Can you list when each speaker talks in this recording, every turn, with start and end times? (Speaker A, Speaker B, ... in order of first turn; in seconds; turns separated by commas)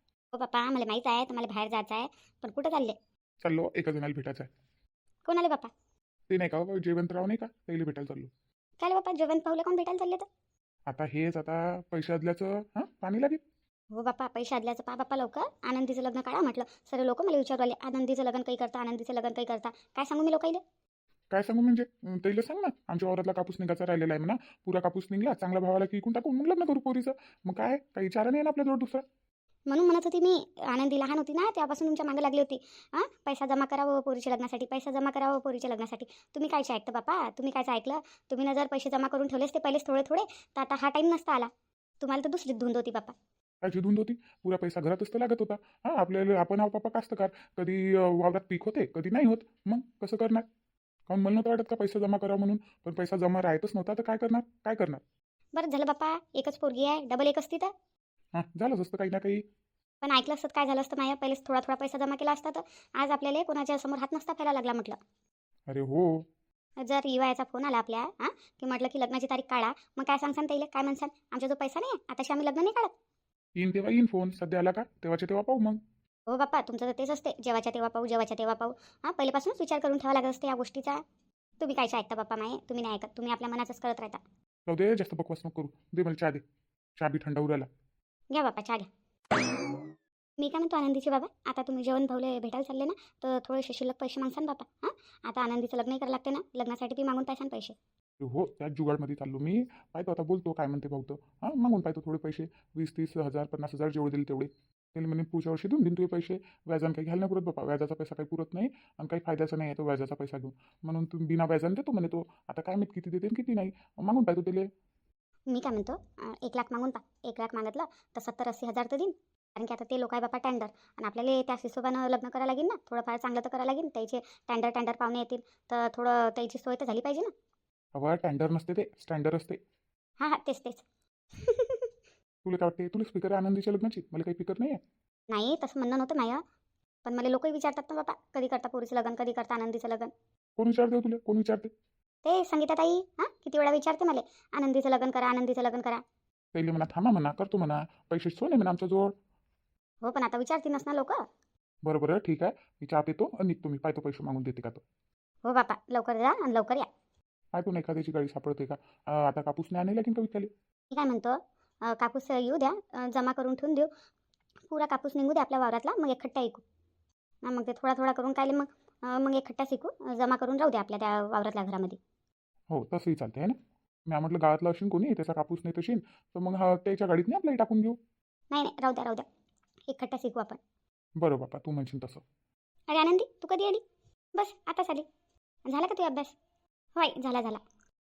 Speaker A: 0.3-3.0, Speaker B: 3.4-4.5, Speaker A: 5.2-5.7, Speaker B: 6.3-8.3, Speaker A: 8.8-10.2, Speaker B: 10.9-13.4, Speaker A: 13.9-20.6, Speaker B: 21.3-29.0, Speaker A: 29.7-41.5, Speaker A: 42.0-43.1, Speaker B: 43.6-50.5, Speaker B: 51.1-55.0, Speaker A: 55.5-57.7, Speaker B: 58.3-59.4, Speaker A: 60.0-65.0, Speaker B: 65.7-66.3, Speaker A: 66.8-72.9, Speaker B: 73.6-75.8, Speaker A: 76.3-81.0, Speaker A: 81.6-84.2, Speaker B: 84.7-86.4, Speaker B: 87.0-87.7, Speaker A: 88.3-88.9, Speaker A: 90.4-97.8, Speaker B: 98.2-114.7, Speaker A: 115.5-127.3, Speaker B: 127.9-129.6, Speaker A: 130.2-131.9, Speaker B: 132.4-134.8, Speaker A: 135.3-136.4, Speaker A: 137.0-140.1, Speaker B: 140.6-141.7, Speaker A: 142.2-146.0, Speaker B: 146.5-149.1, Speaker A: 150.0-151.2, Speaker B: 151.8-154.8, Speaker A: 155.4-156.9, Speaker B: 157.5-160.5, Speaker A: 160.9-163.9, Speaker A: 164.7-166.6, Speaker A: 167.4-172.0, Speaker B: 172.7-178.0, Speaker A: 178.5-179.2, Speaker A: 179.9-180.6, Speaker B: 181.2-182.2, Speaker A: 182.9-183.8, Speaker A: 184.3-185.1, Speaker A: 185.7-186.3, Speaker A: 187.0-187.6